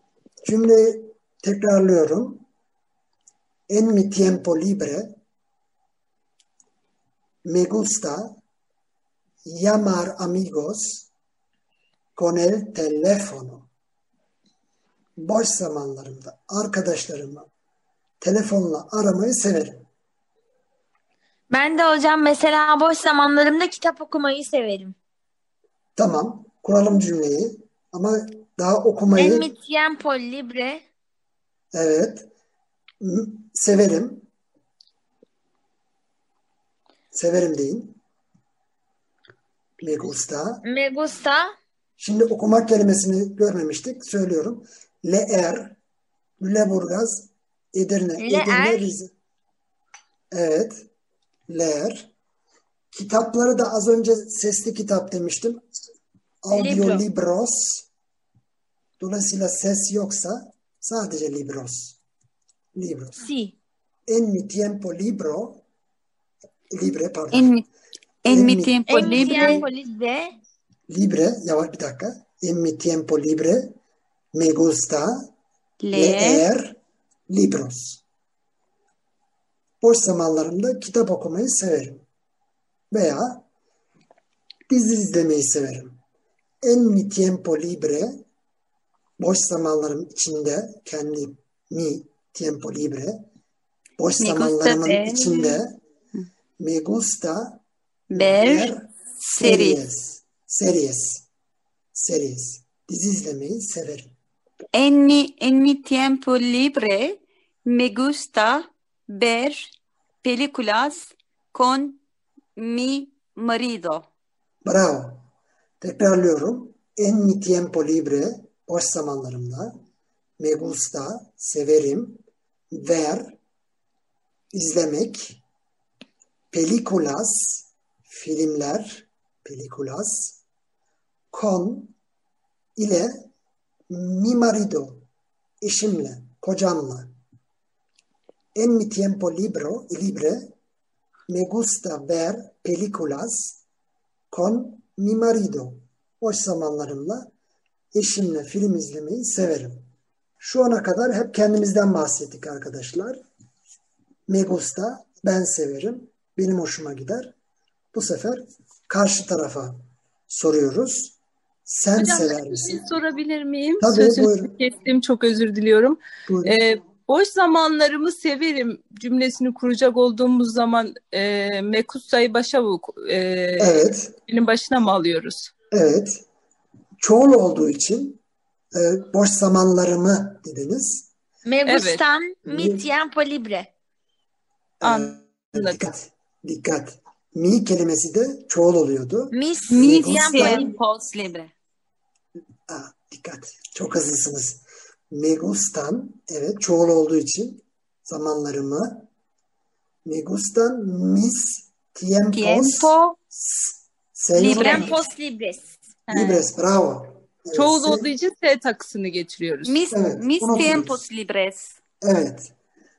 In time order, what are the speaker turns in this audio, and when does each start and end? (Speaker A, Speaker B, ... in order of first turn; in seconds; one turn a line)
Speaker A: 0.4-2.5
Speaker A: 3.7-5.2
Speaker A: 7.5-8.4
Speaker A: 9.4-11.1
Speaker A: 12.2-13.7
Speaker A: 15.2-17.5
Speaker A: 18.2-19.9
Speaker B: 21.5-25.0
Speaker A: 26.0-29.5
Speaker B: 29.1-30.8
Speaker A: 31.7-32.3
Speaker A: 33.0-34.3
Speaker A: 37.1-38.0
Speaker A: 39.8-40.6
Speaker B: 40.6-41.5
Speaker A: 42.0-45.8
Speaker A: 46.4-49.1
Speaker B: 48.2-48.9
Speaker A: 50.3-50.9
Speaker A: 51.5-52.1
Speaker A: 52.9-55.6
Speaker A: 56.4-57.9
Speaker B: 56.5-57.0
Speaker A: 59.0-62.0
Speaker A: 62.8-63.2
Speaker B: 63.2-63.5
Speaker A: 64.1-65.6
Speaker A: 66.7-67.5
Speaker C: 67.3-67.7
Speaker C: 68.2-69.7
Speaker A: 68.3-69.6
Speaker B: 68.9-70.4
Speaker A: 70.9-73.8
Speaker A: 74.3-75.3
Speaker C: 75.8-76.4
Speaker A: 75.9-78.0
Speaker A: 79.8-82.0
Speaker A: 82.9-83.5
Speaker A: 84.7-86.0
Speaker A: 86.6-88.2
Speaker A: 89.2-93.2
Speaker A: 94.0-95.8
Speaker C: 94.2-95.6
Speaker A: 96.6-101.3
Speaker C: 98.1-99.8
Speaker A: 101.9-104.2
Speaker C: 104.7-112.0
Speaker C: 112.6-114.1
Speaker A: 114.7-115.3
Speaker A: 115.8-119.8
Speaker A: 120.4-123.4
Speaker A: 124.5-125.4
Speaker A: 126.5-130.4
Speaker A: 131.3-131.9
Speaker A: 132.8-133.3
Speaker A: 133.9-135.1
Speaker A: 135.6-137.1
Speaker A: 138.6-140.5
Speaker A: 141.3-143.6
Speaker A: 144.3-147.3
Speaker A: 147.9-149.9
Speaker A: 150.4-153.2
Speaker A: 154.3-157.3
Speaker A: 157.9-161.2
Speaker A: 161.7-162.9
Speaker D: 162.0-175.5
Speaker A: 163.8-164.5
Speaker A: 166.3-166.6
Speaker A: 173.6-174.1
Speaker A: 175.7-176.2
Speaker A: 177.0-178.2
Speaker A: 178.8-181.1
Speaker B: 181.5-183.7
Speaker D: 181.7-182.0
Speaker A: 182.4-182.8
Speaker A: 184.8-190.8
Speaker D: 184.8-185.9
Speaker B: 189.3-190.7
Speaker C: 189.7-191.5
Speaker A: 192.7-199.1
Speaker A: 200.1-205.0
Speaker C: 202.3-203.2
Speaker C: 204.4-204.9
Speaker B: 204.4-205.7
Speaker D: 206.1-206.4
Speaker A: 206.1-208.1
Speaker D: 207.5-209.8
Speaker C: 209.7-211.8
Speaker A: 209.9-211.1
Speaker A: 212.0-212.5